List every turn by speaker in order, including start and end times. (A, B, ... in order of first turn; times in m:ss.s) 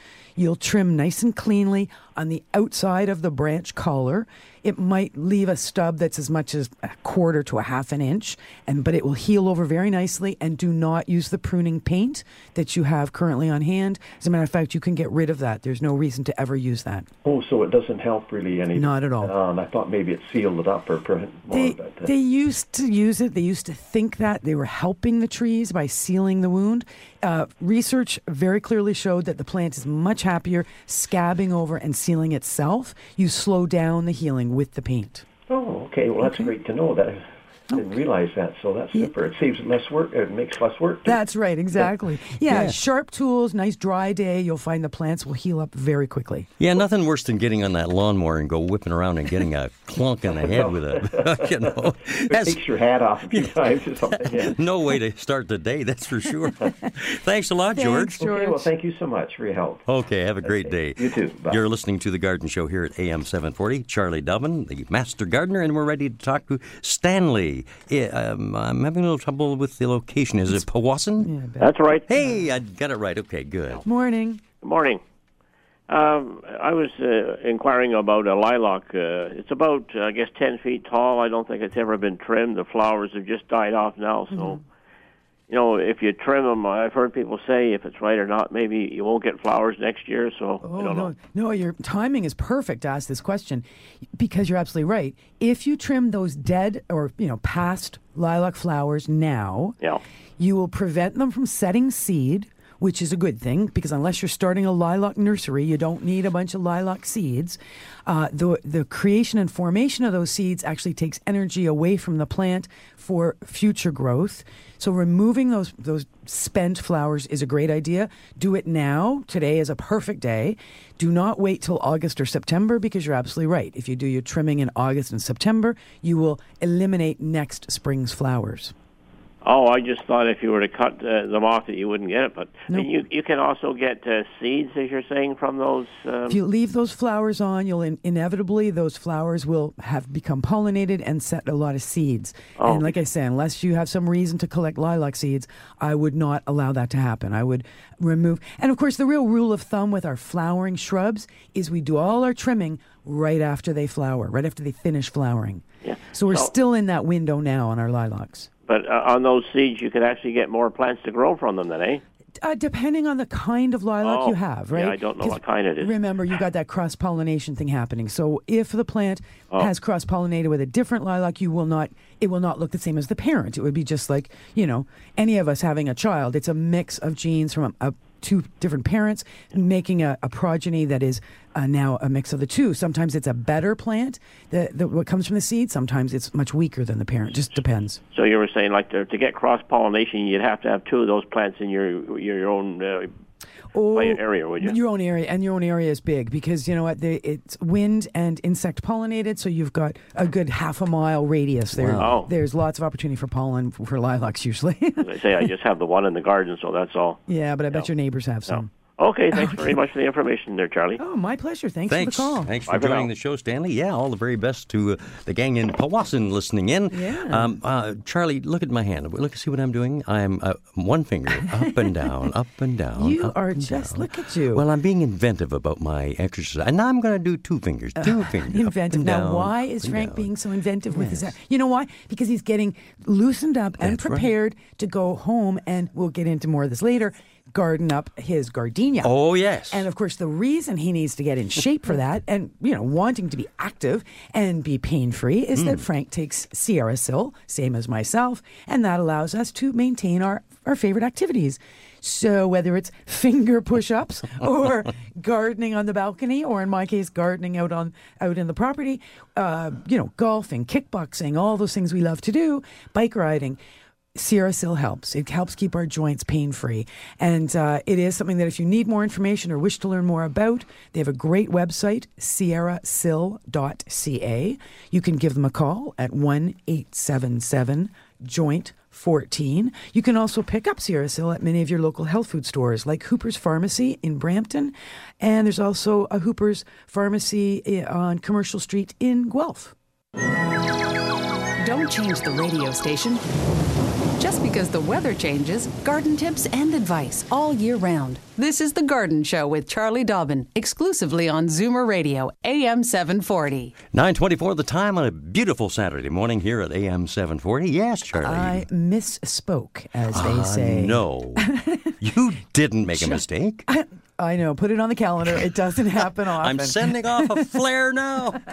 0:00.4-0:17.1 A
0:17.2-0:22.1 B
0:18.7-0:19.3 A
0:21.5-0:35.3 A
0:35.5-0:41.2 B
0:36.2-0:36.5 A
0:41.0-0:46.5 A
0:42.5-0:42.8 C
0:46.6-0:52.7 C
0:50.3-0:54.6 B
0:53.3-0:58.2 C
0:57.8-0:58.7 A
0:58.2-0:59.9 B
0:59.9-1:11.3 C
1:00.4-1:01.6 B
1:11.2-1:12.3 A
1:11.6-1:12.1 D
1:12.1-1:13.8 C
1:13.8-1:14.4 A
1:14.6-1:15.0 D
1:15.9-1:24.6 D
1:24.3-1:24.6 A
1:25.5-1:31.1 D
1:30.6-1:33.6 A
1:34.2-1:39.8 A
1:40.4-2:08.7 A
2:09.4-2:16.4 D
2:16.3-2:38.5 A
2:22.6-2:23.0 D
2:35.8-2:36.5 D
2:38.7-2:42.0 D
2:42.4-3:08.0 A
2:44.0-2:45.9 D
3:08.1-3:13.1 D
3:13.7-3:25.0 A
3:13.9-3:14.8 D
3:21.8-3:22.3 C
3:22.0-3:22.3 D
3:25.0-3:27.9 D
3:27.3-3:28.7 A
3:28.5-3:31.0 D
3:29.3-3:29.8 A
3:31.0-3:32.5 A
3:31.9-3:50.3 C
3:32.7-3:33.1 D
3:36.9-3:37.5 A
3:41.5-3:42.1 A
3:43.0-3:44.6 A
3:48.0-3:59.1 A
3:50.9-3:51.4 C
3:53.8-3:54.3 C
3:59.0-3:59.9 C
3:59.7-4:23.6 A
4:05.6-4:05.8 C
4:24.2-4:49.8 A
4:51.6-4:53.2 E
4:54.2-5:03.8 E
5:03.9-5:08.7 C
5:08.2-5:12.0 A
5:10.1-5:13.6 C
5:12.9-5:17.4 A
5:16.3-5:18.4 C